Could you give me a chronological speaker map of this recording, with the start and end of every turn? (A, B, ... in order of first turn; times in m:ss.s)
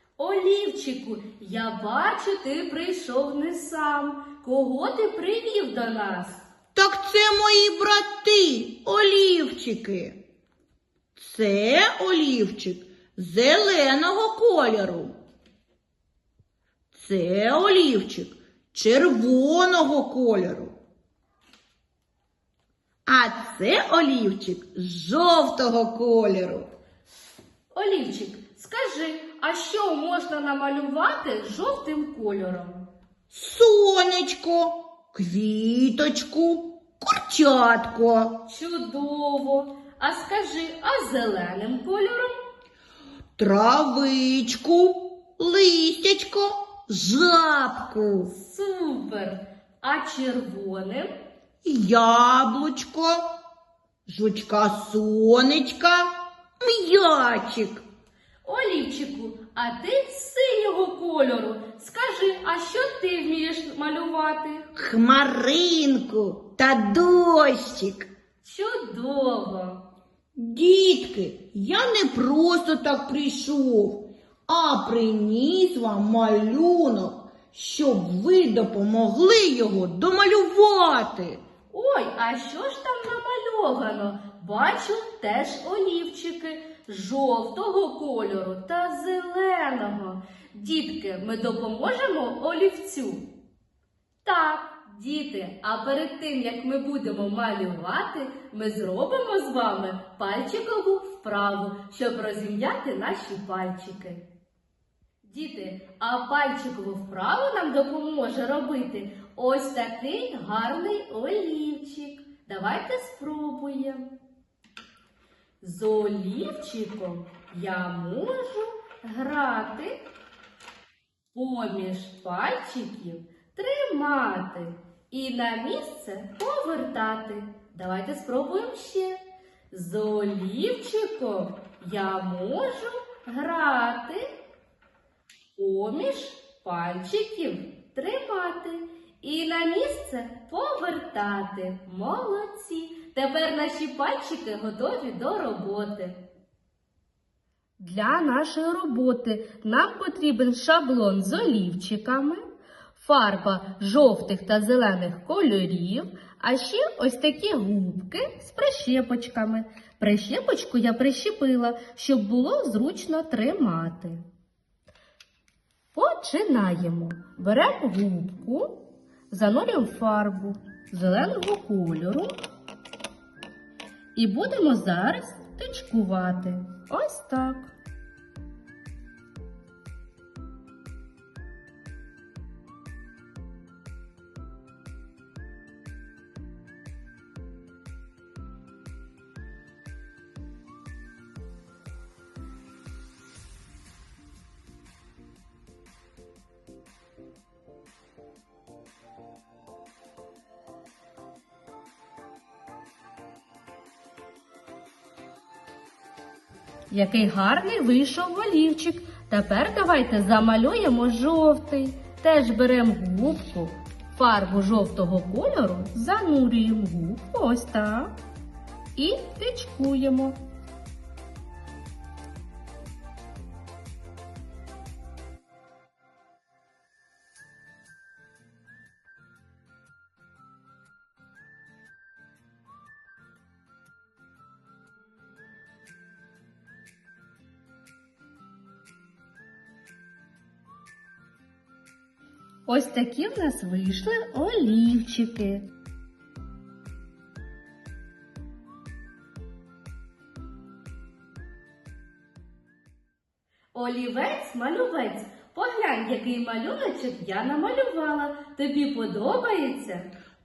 0:00.2-0:06.4 A
0:06.7-0:10.2 B
0:11.2-0:15.1 B
0:16.9-0:20.7 B
0:23.1-0:26.7 B
0:27.7-0:32.8 A
0:33.3-0:38.3 B
0:38.4-0:42.4 A
0:43.4-0:48.3 B
0:48.3-0:51.1 A
0:51.6-0:53.2 B
0:54.1-0:57.8 B
0:58.4-1:04.7 A
1:04.7-1:08.1 B
1:08.4-1:09.8 A
1:10.4-1:21.4 B
1:21.7-1:33.3 A
1:34.2-1:44.2 A
1:45.2-1:54.1 A
1:55.6-2:00.0 A
2:01.3-2:14.2 A
2:15.6-2:26.2 A
2:27.8-2:32.4 A
2:33.0-2:44.2 A
2:45.9-2:48.8 A
2:49.3-2:52.3 A
2:54.1-2:57.7 A
3:26.9-3:38.1 A
3:39.0-3:40.4 A
4:02.7-4:05.7 A
4:13.7-4:20.1 A